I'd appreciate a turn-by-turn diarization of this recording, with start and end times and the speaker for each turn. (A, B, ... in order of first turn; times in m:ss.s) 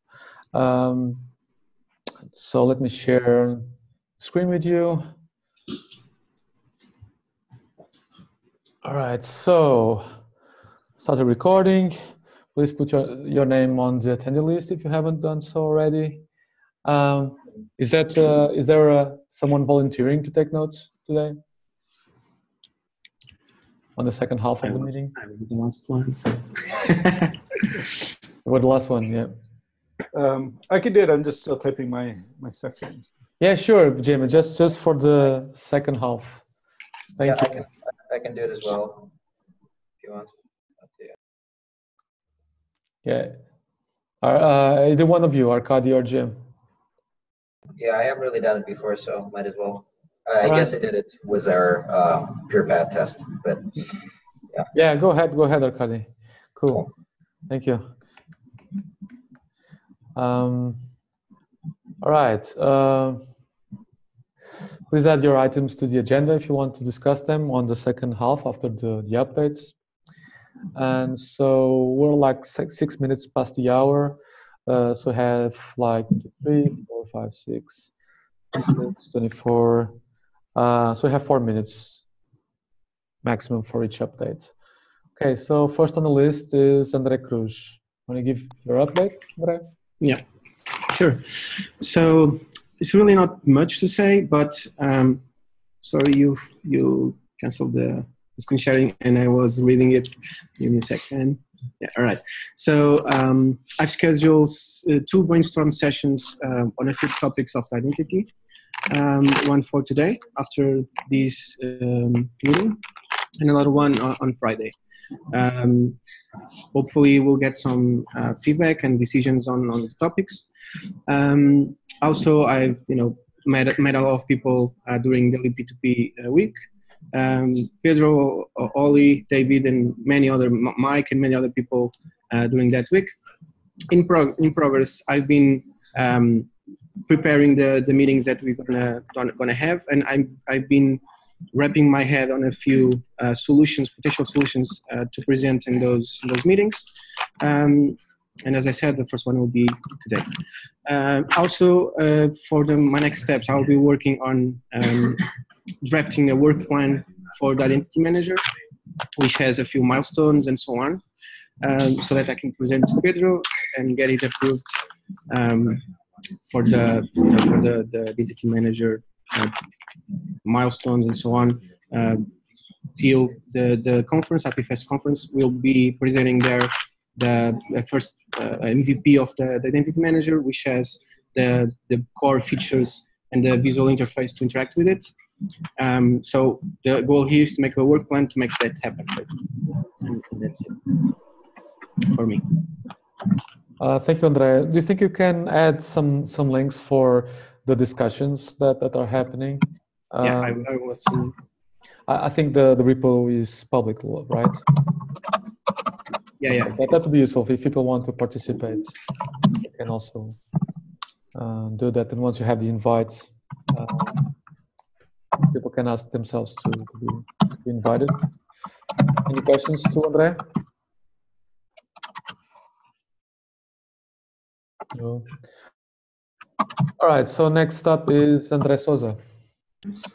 0:00.5-0:01.2 A
0:02.3-0:05.0 A
0:08.8-0:10.0 A
0:11.0-0:12.0 A
0:12.5-0:16.2 A
0:16.8-0:21.4 A
0:24.0-0:25.1 A
0:24.6-0:27.3 B
0:28.4-0:29.3 A
0:30.1-0:33.1 C
0:33.4-0:36.4 A
0:37.2-0:37.6 A
0:37.2-0:39.1 D
0:40.0-0:41.1 D
0:43.0-0:43.4 A
0:44.2-0:46.4 A
0:47.8-0:54.0 D
0:50.4-0:50.7 A
0:54.7-0:56.9 A
0:57.5-0:57.9 A
1:00.2-1:00.8 A
1:02.0-1:03.2 A
1:04.9-1:09.7 A
1:10.7-1:17.9 A
1:18.5-1:19.9 A
1:20.5-1:22.0 A
1:23.2-1:24.5 A
1:25.2-1:29.6 A
1:30.7-1:35.2 B
1:35.8-1:48.3 B
1:48.9-1:52.8 B
1:53.4-1:54.7 B
1:55.3-1:56.0 B
1:56.7-2:00.5 B
2:01.1-2:06.6 B
2:07.1-2:13.1 B
2:13.9-2:16.5 B
2:17.0-2:30.3 B
2:30.8-2:38.4 B
2:39.2-2:41.0 B
2:41.6-2:44.7 B
2:45.3-2:45.8 B
2:46.5-2:49.6 B
2:50.4-2:52.3 B
2:53.0-3:05.1 B
3:05.8-3:11.1 B
3:12.0-3:12.6 B
3:13.8-3:20.6 A
3:20.2-3:21.3 B
3:22.1-3:24.7 A
3:26.4-3:26.9 B
3:26.5-3:28.9 A
3:29.5-3:30.4 A
3:31.3-3:34.2 A
3:35.4-3:38.2 A
3:39.2-3:40.5 A
3:44.9-3:45.3 A
3:47.0-3:49.2 A